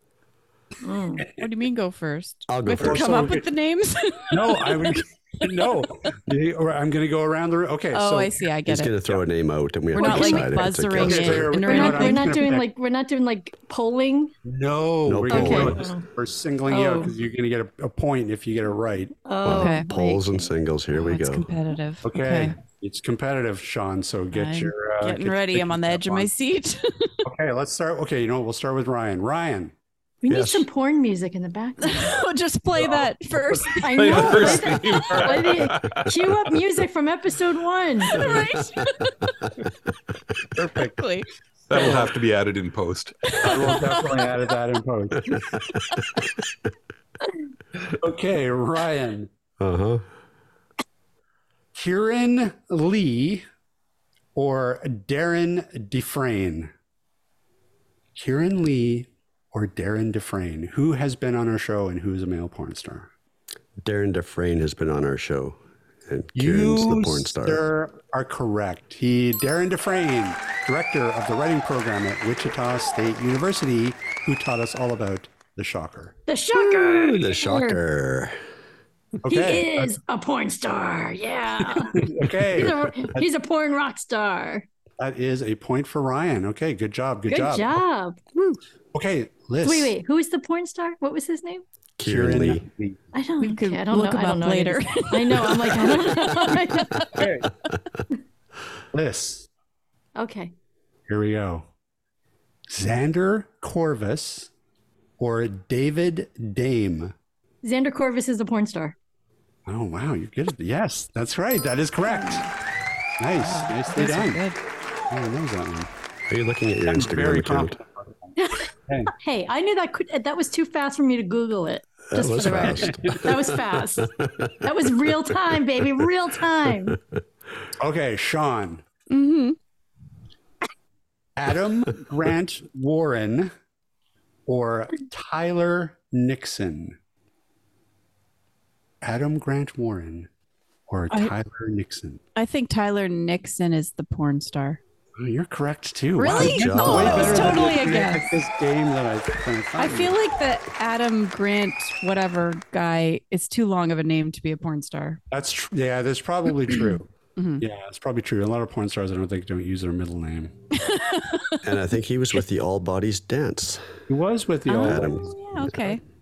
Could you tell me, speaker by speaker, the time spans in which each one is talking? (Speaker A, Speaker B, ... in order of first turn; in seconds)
Speaker A: 0.8-1.2, 9.9-10.5, 11.7-14.3, 15.3-16.1, 16.7-17.1, 19.2-20.5, 30.2-32.1, 33.8-38.3, 76.3-77.8, 79.3-84.7, 87.3-88.6, 89.6-91.6, 93.1-97.2, 100.2-100.5, 107.6-109.0, 118.4-127.0
Speaker B: 1.4-5.8, 7.9-8.9, 9.9-12.3, 19.5-19.9, 20.9-22.6, 24.3-27.2, 31.8-34.5, 38.1-39.2, 40.9-41.9, 43.3-44.2, 93.4-97.2, 113.3-114.6, 129.1-129.6, 142.3-144.8, 146.2-148.3, 149.8-155.2, 157.4-157.6, 160.8-161.6, 164.7-166.0
Speaker C: 2.5-3.2, 8.7-11.6, 15.1-15.8, 19.4-21.5, 30.3-30.7, 46.0-46.3, 49.6-50.0, 63.8-67.6, 76.9-78.4, 92.0-92.7, 116.3-117.8, 122.1-124.5, 146.3-147.6, 161.6-163.9, 164.8-166.0
Speaker D: 2.8-3.5, 4.3-8.3, 10.9-12.7, 14.4-19.1, 22.0-26.3, 27.2-29.7, 32.8-33.8, 34.5-35.6, 40.5-41.0, 41.7-42.1, 43.4-45.4, 48.0-49.3, 51.7-53.4, 54.3-56.7, 58.1-63.1, 66.3-77.2, 79.2-79.9, 81.7-83.2, 85.0-87.8, 88.9-89.9, 92.0-93.0, 97.2-97.5, 98.9-99.5, 101.1-101.7, 102.7-104.5, 105.2-107.1, 109.7-112.5, 113.2-114.4, 115.1-115.9, 116.9-118.3, 118.9-119.1, 122.6-123.2, 127.8-128.8, 131.4-133.5, 134.5-137.0, 139.0-140.3, 140.9-142.2, 145.2-150.2, 155.3-157.1, 157.6-160.5, 164.1-165.3
Speaker E: 33.9-36.1, 41.7-43.3